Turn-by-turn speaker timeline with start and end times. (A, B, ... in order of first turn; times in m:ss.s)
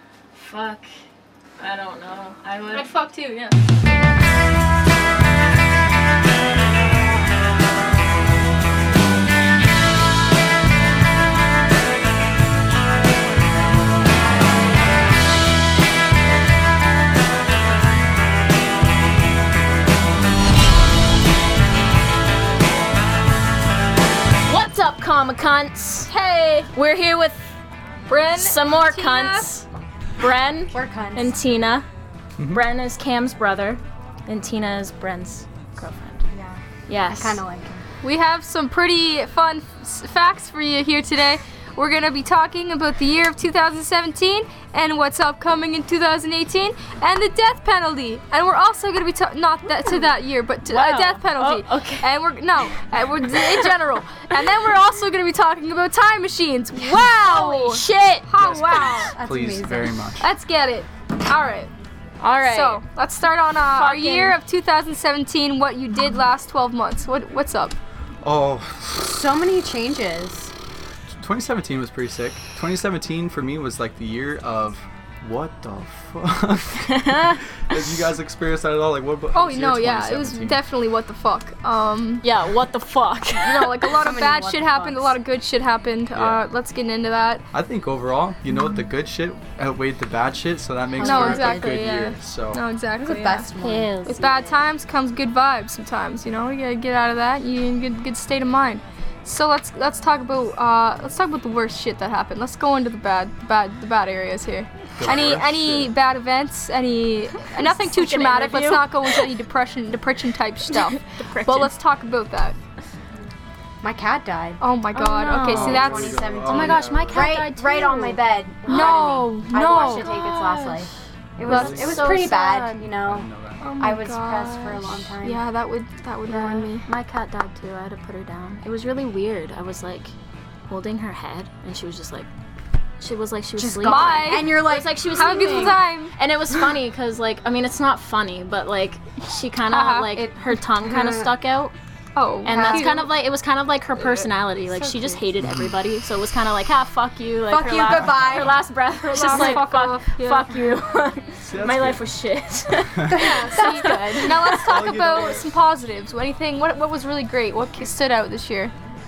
0:00.4-0:00.9 A
0:01.6-0:02.9 A
0:02.7-0:03.6 B
0:24.5-0:26.1 A
0:26.1-0:26.7 B
0:26.7-0:27.4 A
0:28.1-0:29.5 B
0:28.3-0:29.7 A
0:30.2-0:31.9 A
0:30.7-0:31.3 C
0:32.4-0:32.6 D
0:32.5-0:36.2 A
0:36.3-0:37.8 C
0:36.9-0:37.4 A
0:38.0-0:59.1 B
0:50.6-0:52.1 A
0:56.8-0:58.2 A
0:58.4-1:00.2 D
0:59.1-0:59.9 C
1:00.2-1:01.7 B
1:02.2-1:02.8 A
1:02.4-1:07.7 B
1:03.7-1:04.4 A
1:08.2-1:09.2 D
1:09.0-1:10.5 C
1:11.2-1:20.6 D
1:16.8-1:17.4 A
1:19.3-1:22.2 B
1:22.2-1:23.8 A
1:23.3-1:27.4 B
1:24.0-1:25.2 C
1:26.1-1:26.4 D
1:27.5-1:32.6 D
1:30.9-1:31.8 C
1:31.0-1:33.5 B
1:33.0-1:33.9 C
1:33.6-1:34.6 A
1:34.1-1:52.6 B
1:45.0-1:45.9 D
1:47.6-1:49.3 A
1:51.1-1:51.7 A
1:53.8-1:54.6 C
1:54.6-1:56.2 B
1:54.9-1:55.8 A
1:55.3-2:05.4 C
1:55.4-1:57.3 D
1:56.4-1:59.0 A
1:58.7-2:00.1 B
1:59.6-2:00.9 A
2:01.4-2:02.2 D
2:01.5-2:01.7 B
2:01.5-2:02.8 A
2:03.0-2:03.6 D
2:03.6-2:06.9 B
2:06.3-2:10.1 A
2:10.7-2:12.3 A
2:13.0-2:21.7 A
2:13.5-2:15.7 C
2:13.8-2:16.1 B
2:19.6-2:20.3 B
2:20.8-2:21.3 C
2:22.1-2:23.1 B
2:22.4-2:34.6 A
2:22.4-2:23.0 C
2:24.7-2:25.2 C
2:27.5-2:28.6 C
2:27.8-2:28.2 B
2:29.0-2:30.5 B
2:31.4-2:32.1 D
2:33.1-2:38.7 B
2:33.1-2:34.3 C
2:34.6-2:35.5 D